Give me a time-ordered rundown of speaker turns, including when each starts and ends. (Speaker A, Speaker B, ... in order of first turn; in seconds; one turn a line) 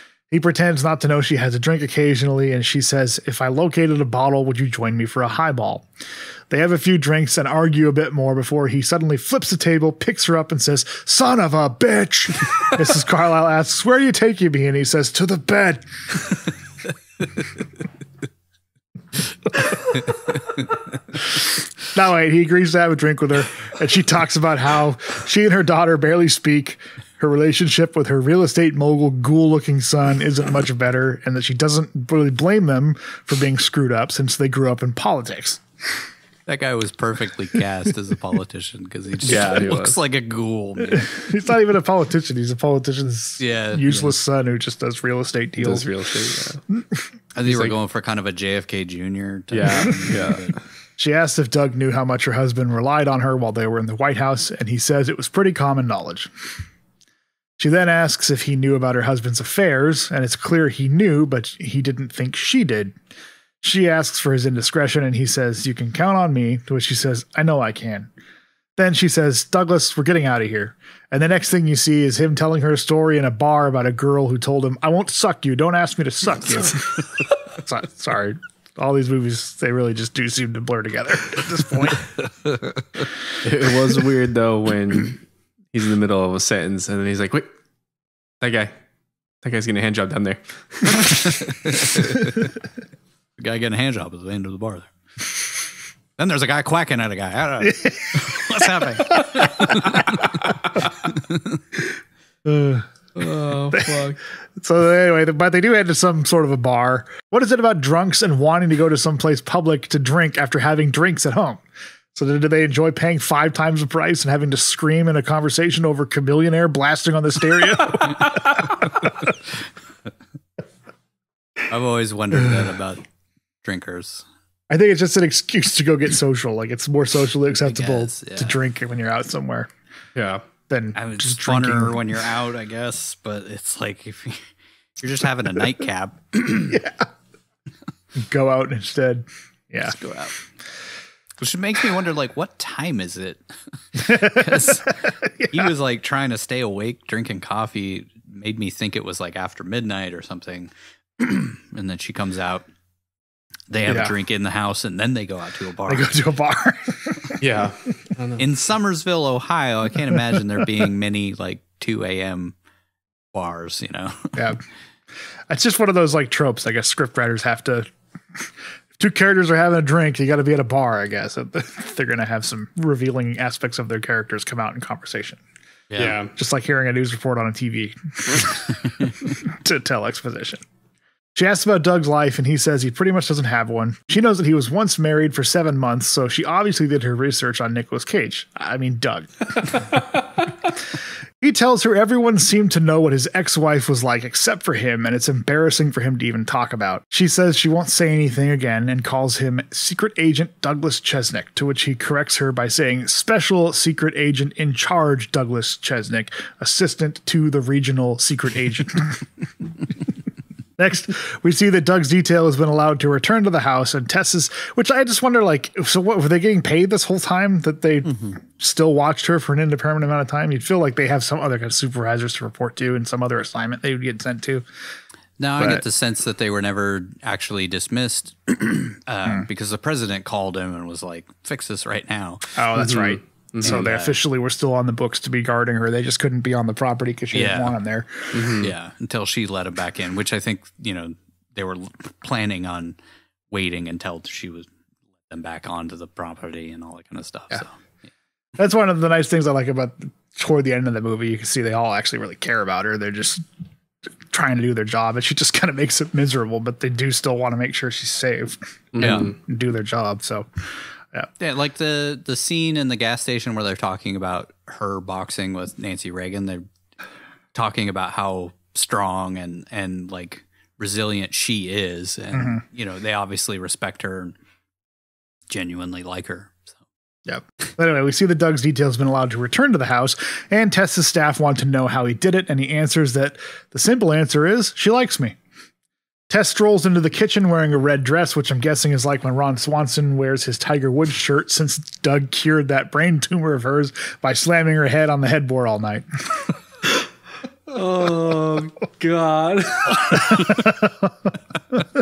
Speaker A: 0.3-5.9
Speaker A: 6.5-15.8
Speaker A: 19.7-20.0
Speaker A: 21.4-35.6
Speaker B: 36.5-41.1
Speaker C: 39.2-40.0
Speaker A: 40.8-45.9
Speaker B: 43.4-44.1
Speaker C: 45.6-46.6
Speaker B: 47.4-50.5
Speaker C: 47.4-47.8
Speaker C: 49.5-50.5
Speaker A: 51.0-56.3
Speaker A: 57.6-63.0
Speaker A: 63.6-68.1
Speaker A: 68.8-82.1
Speaker C: 83.4-87.5
Speaker C: 88.4-88.7
Speaker C: 89.4-91.1
Speaker B: 90.9-92.3
Speaker B: 93.4-94.9
Speaker B: 96.2-100.4
Speaker A: 97.6-100.0
Speaker A: 102.5-102.9
Speaker C: 103.2-104.2
Speaker A: 103.7-111.6
Speaker A: 112.2-118.8
Speaker B: 121.7-123.0
Speaker B: 123.6-124.2
Speaker A: 124.7-129.7
Speaker B: 127.6-128.6
Speaker C: 130.2-130.4
Speaker A: 130.7-132.0
Speaker B: 130.9-134.5
Speaker B: 135.0-136.8
Speaker A: 136.7-137.0
Speaker A: 138.2-139.9
Speaker B: 139.8-140.4
Speaker B: 141.4-145.0
Speaker A: 144.0-144.8
Speaker A: 145.4-145.7
Speaker B: 145.5-152.7
Speaker B: 153.7-156.1
Speaker A: 153.9-154.1
Speaker A: 155.9-157.4
Speaker C: 157.4-158.4
Speaker B: 158.4-162.6
Speaker B: 163.3-164.4
Speaker A: 165.5-167.9
Speaker A: 169.0-175.4
Speaker B: 175.9-176.2
Speaker C: 176.0-176.3
Speaker A: 176.4-180.6
Speaker A: 181.3-190.1
Speaker A: 191.4-209.2
Speaker A: 210.8-224.7
Speaker B: 225.4-232.5
Speaker A: 232.6-238.5
Speaker C: 232.8-233.8
Speaker B: 233.6-234.2
Speaker B: 237.3-237.8
Speaker C: 238.3-238.7
Speaker B: 238.6-243.0
Speaker B: 243.5-244.7
Speaker B: 245.3-247.7
Speaker A: 248.6-253.4
Speaker A: 254.3-260.5
Speaker C: 258.9-259.3
Speaker B: 259.0-259.3
Speaker B: 261.4-266.7
Speaker B: 267.5-274.4
Speaker A: 272.3-272.6
Speaker B: 275.5-276.7
Speaker A: 277.3-285.4
Speaker A: 286.3-296.5
Speaker C: 297.7-300.0
Speaker A: 300.1-300.7